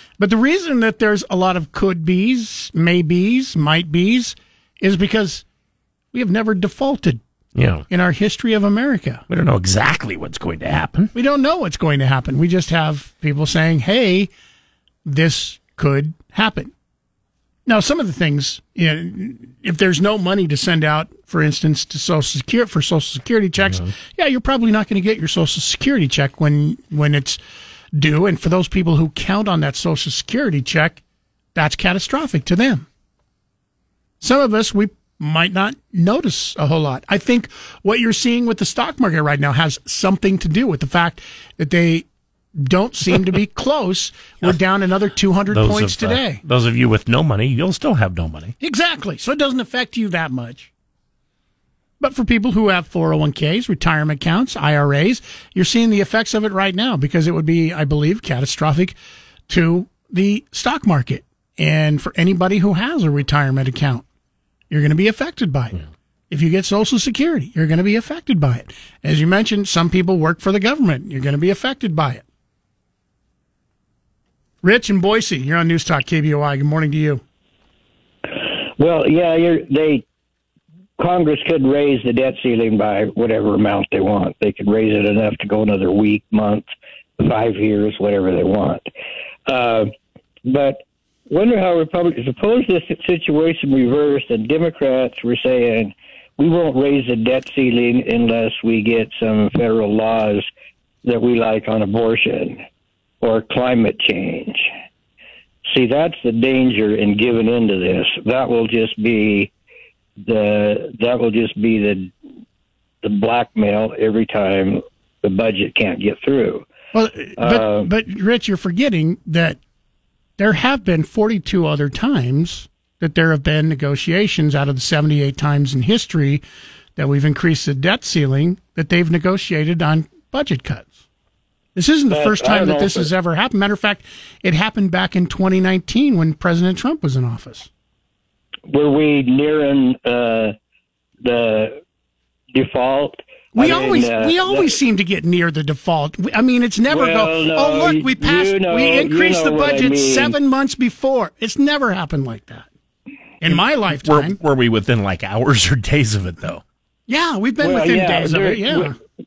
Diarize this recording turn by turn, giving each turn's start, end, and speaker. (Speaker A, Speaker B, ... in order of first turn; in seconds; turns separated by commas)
Speaker A: 0.2-5.4, Speaker A: 6.1-7.2, Speaker B: 7.5-7.8, Speaker A: 7.9-9.2, Speaker B: 9.3-11.1, Speaker A: 11.1-14.3, Speaker A: 15.0-16.7, Speaker A: 17.7-27.4, Speaker B: 23.6-23.9, Speaker A: 27.9-31.0, Speaker A: 31.5-32.9, Speaker A: 34.2-46.4, Speaker B: 45.5-48.5, Speaker A: 48.6-50.7, Speaker A: 52.0-59.0, Speaker A: 59.5-64.0, Speaker A: 64.7-65.8, Speaker A: 66.3-72.2, Speaker A: 74.6-77.2, Speaker C: 78.8-80.0, Speaker C: 81.0-88.8, Speaker C: 89.5-89.9, Speaker C: 90.5-100.5, Speaker C: 101.0-102.6, Speaker C: 103.2-104.7, Speaker C: 105.7-109.5, Speaker C: 110.3-112.1, Speaker C: 113.0-116.7, Speaker A: 116.9-119.6, Speaker C: 117.4-117.9, Speaker A: 120.4-126.4, Speaker A: 127.0-130.9, Speaker A: 131.8-137.7, Speaker C: 132.1-133.1, Speaker C: 138.7-140.5, Speaker C: 141.2-141.8, Speaker C: 142.5-144.7, Speaker A: 143.5-152.7, Speaker C: 146.9-150.3, Speaker A: 153.4-154.4, Speaker B: 153.5-156.6, Speaker A: 157.1-158.9, Speaker C: 157.6-158.9